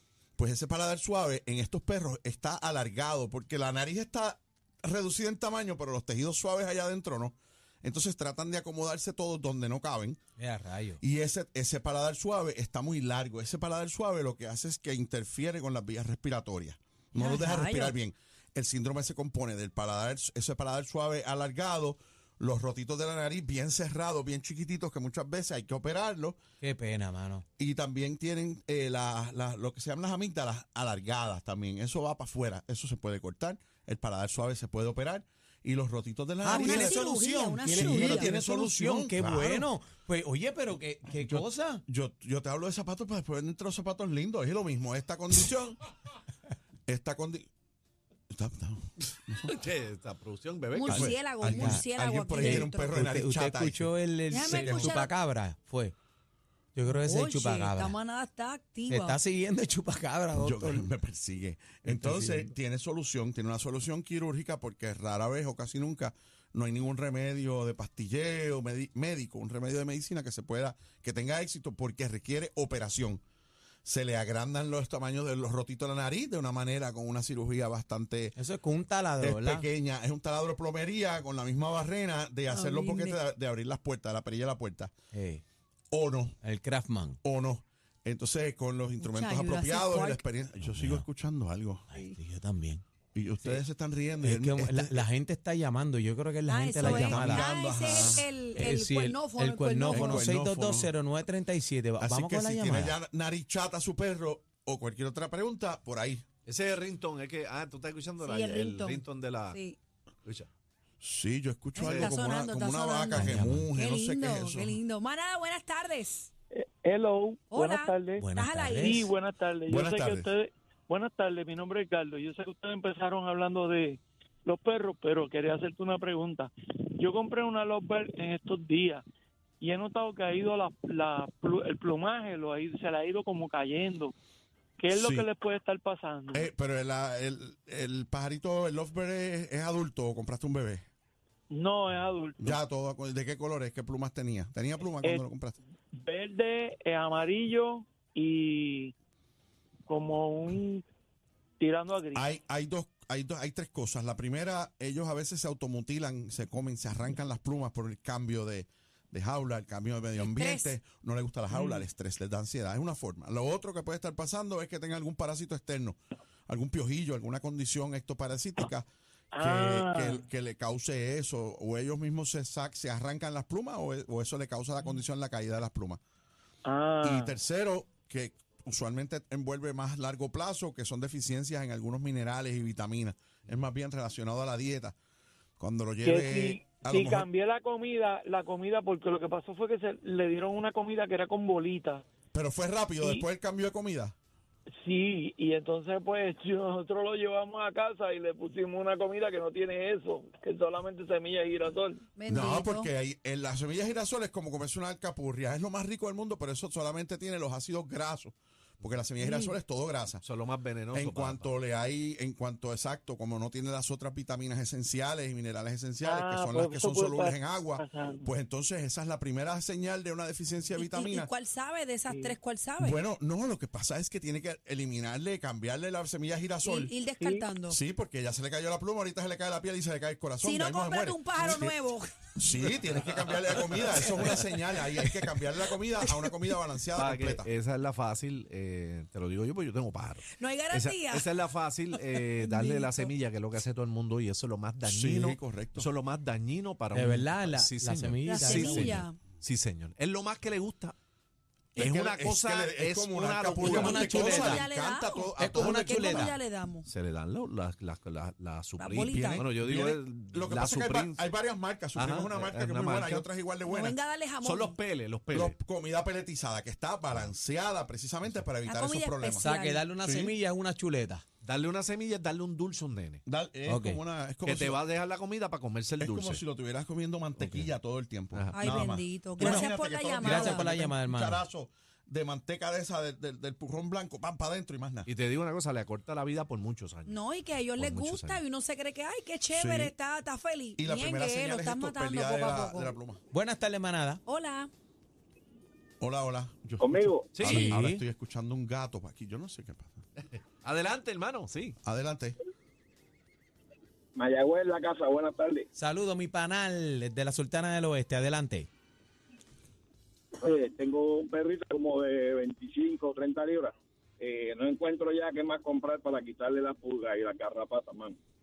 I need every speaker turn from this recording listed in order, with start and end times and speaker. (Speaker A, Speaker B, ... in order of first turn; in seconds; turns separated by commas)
Speaker A: 0.4-10.2, Speaker B: 10.4-11.0, Speaker A: 11.0-26.4, Speaker C: 17.1-17.9, Speaker B: 26.6-27.4, Speaker A: 27.6-37.1, Speaker B: 36.4-41.8, Speaker C: 36.5-38.1, Speaker A: 37.7-39.7, Speaker A: 41.1-45.8, Speaker A: 46.9-47.5, Speaker A: 48.3-49.6, Speaker D: 49.5-51.1, Speaker C: 50.7-53.0, Speaker A: 50.9-55.0, Speaker B: 51.5-51.8, Speaker B: 52.4-56.0, Speaker C: 54.3-55.1, Speaker B: 56.8-58.0, Speaker C: 57.0-59.2, Speaker B: 58.9-60.9, Speaker A: 60.4-73.2, Speaker B: 61.9-62.5, Speaker A: 73.8-78.3, Speaker B: 78.4-79.7, Speaker A: 79.2-84.9, Speaker C: 82.5-83.2, Speaker B: 85.1-85.4, Speaker A: 85.9-86.4, Speaker B: 86.4-87.2, Speaker A: 87.2-91.9, Speaker C: 89.0-90.3, Speaker B: 90.7-91.0, Speaker B: 91.9-92.8, Speaker A: 93.1-95.1, Speaker B: 94.2-97.5, Speaker C: 96.5-100.3, Speaker A: 96.8-98.3, Speaker B: 98.0-103.0, Speaker A: 99.9-100.9, Speaker A: 102.0-106.2, Speaker D: 106.5-109.6, Speaker C: 108.2-109.8, Speaker A: 111.0-114.8, Speaker C: 111.8-116.3, Speaker D: 111.8-112.2, Speaker B: 113.1-113.7, Speaker E: 116.5-118.3, Speaker C: 117.5-118.9, Speaker B: 118.2-119.1, Speaker E: 118.8-129.0, Speaker A: 119.7-120.3, Speaker E: 129.6-134.1, Speaker E: 134.8-136.5, Speaker A: 134.9-135.3, Speaker A: 136.3-140.8, Speaker E: 141.5-142.6, Speaker A: 142.4-145.6, Speaker E: 146.0-148.9, Speaker E: 149.9-150.8, Speaker E: 151.6-152.3, Speaker A: 152.2-166.0, Speaker C: 160.2-160.8, Speaker E: 161.5-161.9, Speaker A: 166.5-168.9, Speaker E: 169.3-170.2, Speaker A: 169.4-176.0, Speaker E: 176.7-177.4, Speaker A: 177.0-185.0, Speaker A: 185.6-187.3, Speaker E: 186.0-192.1, Speaker A: 192.3-194.2, Speaker E: 194.8-202.1, Speaker C: 202.2-202.9, Speaker A: 202.3-210.2, Speaker E: 209.2-209.5, Speaker D: 210.2-211.5, Speaker A: 210.9-221.3, Speaker E: 216.0-218.2, Speaker C: 220.7-223.0, Speaker E: 222.1-222.4, Speaker A: 222.8-226.9, Speaker C: 226.6-227.8, Speaker E: 227.2-227.5, Speaker A: 227.7-231.8, Speaker C: 230.4-232.3, Speaker A: 232.3-237.5, Speaker D: 233.1-234.4, Speaker D: 237.0-250.9, Speaker C: 240.3-241.4, Speaker C: 241.9-243.1, Speaker A: 244.8-245.9, Speaker B: 246.9-249.0, Speaker C: 248.2-249.2, Speaker D: 251.8-254.2, Speaker A: 251.8-256.3, Speaker B: 253.6-254.7, Speaker C: 253.9-256.9, Speaker B: 255.4-256.3, Speaker D: 256.9-261.2, Speaker C: 258.8-259.4, Speaker A: 259.0-263.9, Speaker D: 261.9-263.2, Speaker C: 263.7-264.8, Speaker D: 264.4-265.6, Speaker A: 265.3-269.5, Speaker C: 268.6-269.9, Speaker B: 269.4-271.2, Speaker A: 270.0-270.3, Speaker D: 271.4-273.2, Speaker A: 273.3-274.8, Speaker B: 273.7-274.0, Speaker D: 274.4-276.4, Speaker A: 276.0-285.1, Speaker D: 277.4-277.7, Speaker D: 278.3-278.6, Speaker C: 278.5-280.7, Speaker B: 279.4-279.6, Speaker B: 280.2-281.4, Speaker D: 285.1-288.4, Speaker C: 287.1-292.9, Speaker A: 289.5-289.9, Speaker A: 290.8-293.2, Speaker B: 293.3-294.2, Speaker C: 294.3-294.7, Speaker A: 296.0-300.0, Speaker F: 296.8-297.4, Speaker D: 297.3-297.8, Speaker B: 297.4-298.0, Speaker D: 300.3-301.8, Speaker A: 301.8-302.4, Speaker F: 304.2-305.7, Speaker B: 305.8-308.7, Speaker F: 310.4-318.2